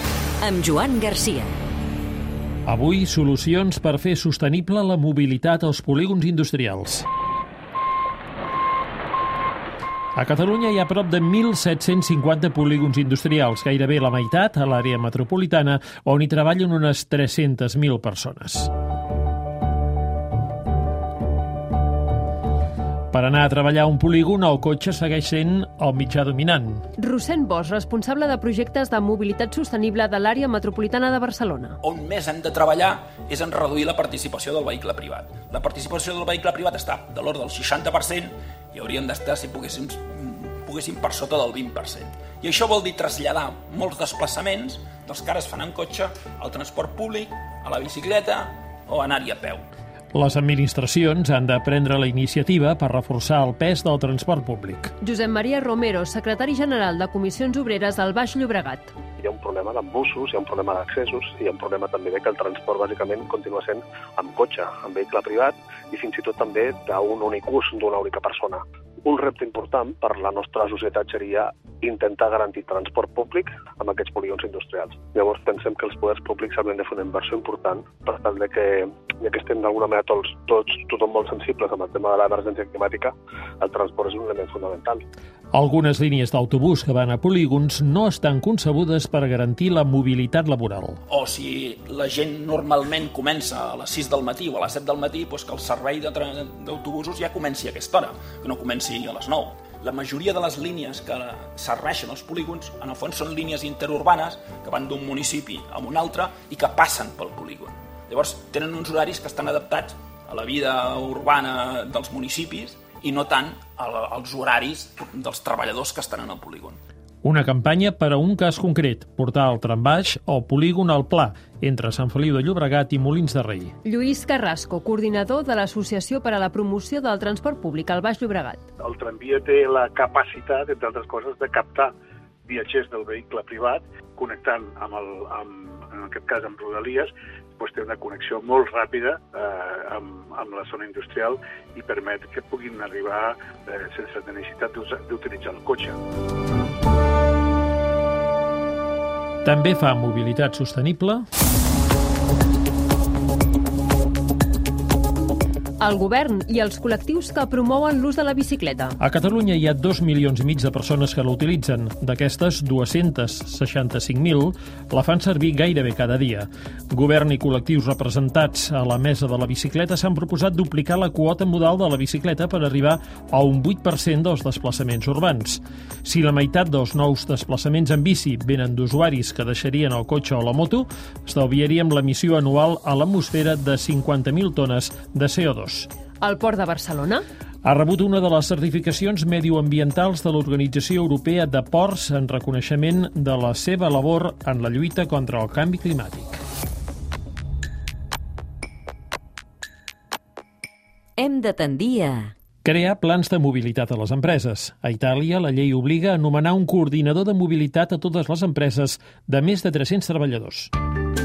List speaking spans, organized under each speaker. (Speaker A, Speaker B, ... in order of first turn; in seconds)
Speaker A: 0.4-1.6, 201.2-202.3
Speaker B: 2.6-7.1, 10.1-18.7, 23.1-26.8, 50.1-54.9, 85.5-91.0, 117.2-123.7, 149.4-151.2, 159.0-185.9, 187.6-196.4, 202.6-210.7
Speaker C: 27.0-31.8, 55.0-58.9, 123.8-128.6, 155.8-159.0, 186.2-187.2
Speaker D: 31.8-49.6, 91.1-116.8
Speaker E: 59.2-85.0
Speaker F: 128.8-131.9, 132.5-146.0